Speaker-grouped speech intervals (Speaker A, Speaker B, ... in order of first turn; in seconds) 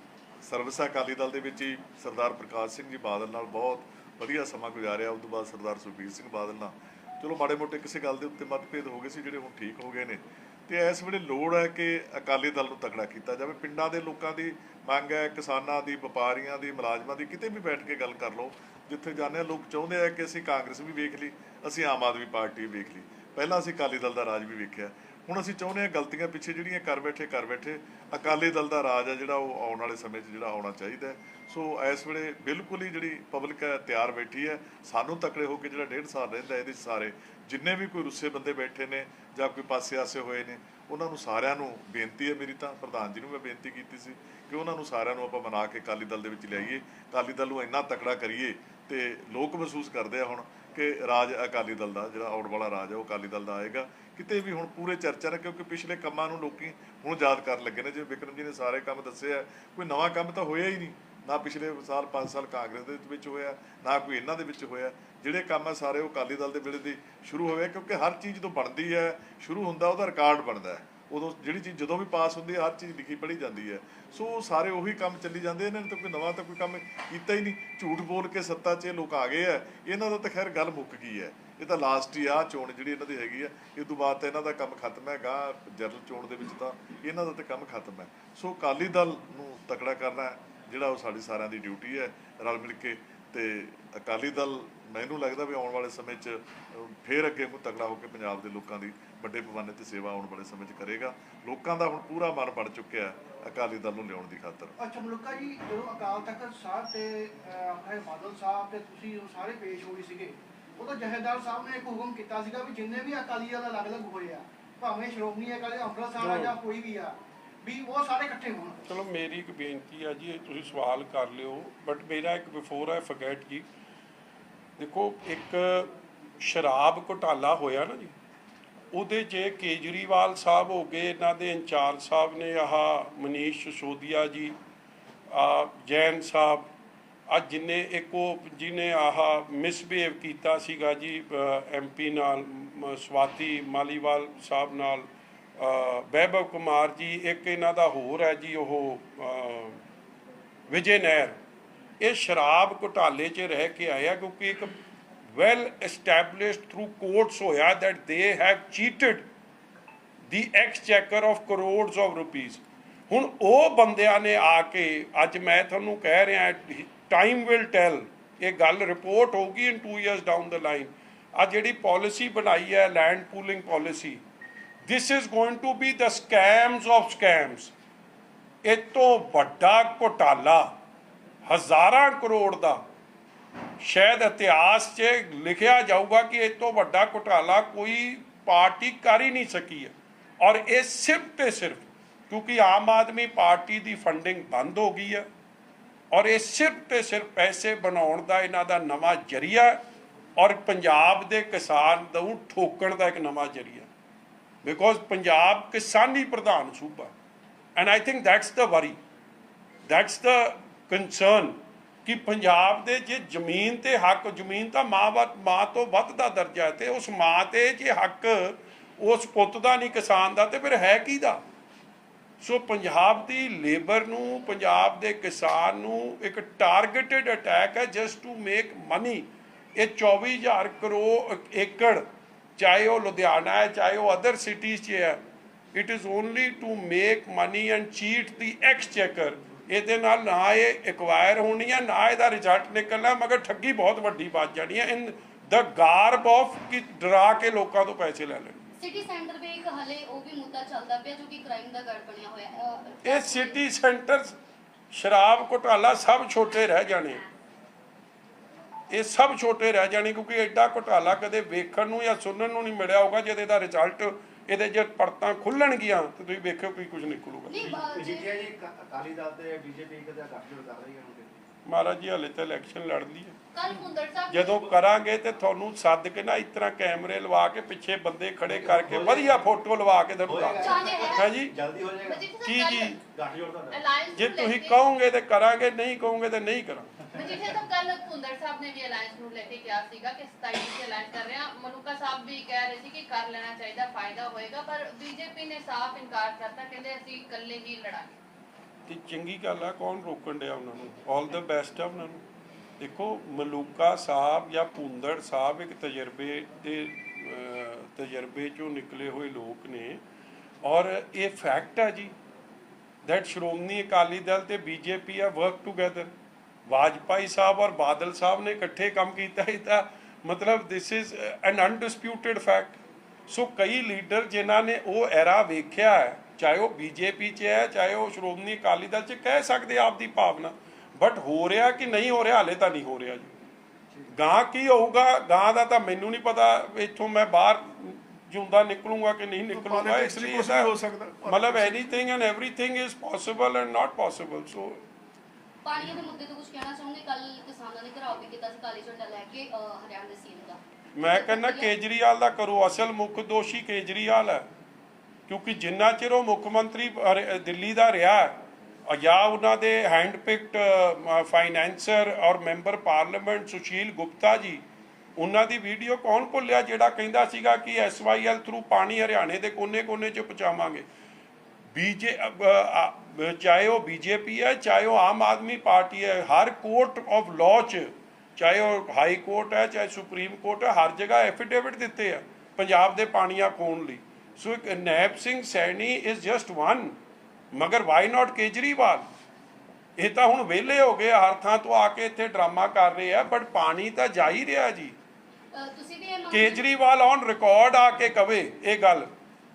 Speaker A: 0.4-104.8, 339.5-341.9
Speaker B: 104.8-118.8
Speaker C: 116.2-116.6, 118.9-123.7, 124.8-128.2, 128.9-134.6, 135.3-136.7, 137.3-149.8, 150.7-151.4, 152.0-154.7, 155.3-159.3, 160.3-174.2, 174.8-177.7, 178.6-180.7, 181.5-182.8, 183.8-195.3, 196.1-199.8, 200.4-203.9, 204.6-207.1, 207.8-209.0, 209.9-221.4, 222.4-232.1, 232.6-235.2, 235.7-248.6, 253.1-254.3, 254.9-257.2, 258.9-267.8, 271.7-273.4, 274.3-281.6, 282.4-283.0, 284.1-286.9, 298.9-302.2, 302.8-310.0, 310.6-312.1, 313.0-316.1, 316.7-333.3, 334.1-344.8, 351.0-354.5, 355.3-364.6, 365.2-370.9, 371.7-387.0, 387.5-389.1, 390.0-395.0, 396.3-399.1
Speaker D: 248.8-253.6, 267.5-268.3, 280.6-281.3, 345.6-351.8, 395.5-396.7
Speaker E: 267.6-271.5, 278.5-279.5, 280.2-282.3, 283.0-283.8
Speaker F: 273.5-274.8, 282.0-283.0, 283.7-284.8, 287.1-298.2